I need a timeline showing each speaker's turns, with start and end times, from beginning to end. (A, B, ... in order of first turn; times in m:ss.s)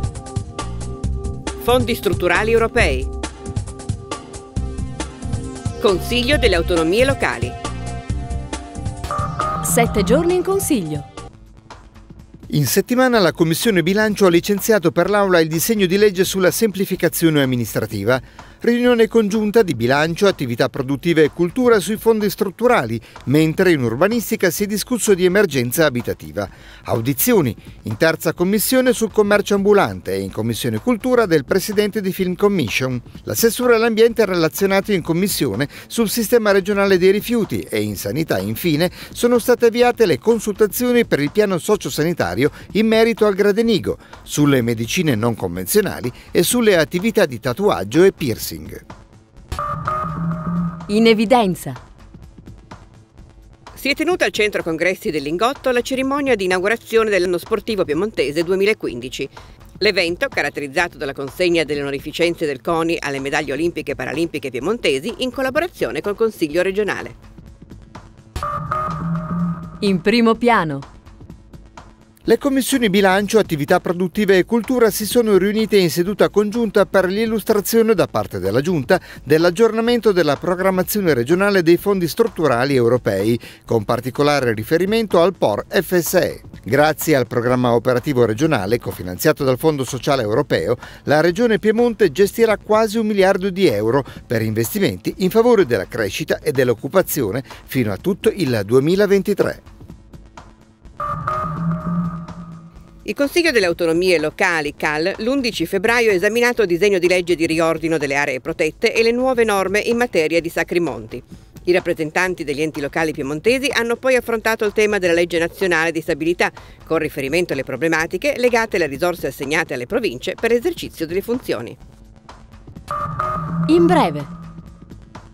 0:01.6-0:03.1 A
0:05.8-0:07.6 A
0:09.6-0:11.1 B
0:12.5-0:48.8 C
0:50.9-0:51.8 B
0:53.8-1:07.2 A
1:09.8-1:10.9 B
1:12.3-1:39.6 C
1:43.0-2:01.8 A
2:03.7-2:04.3 B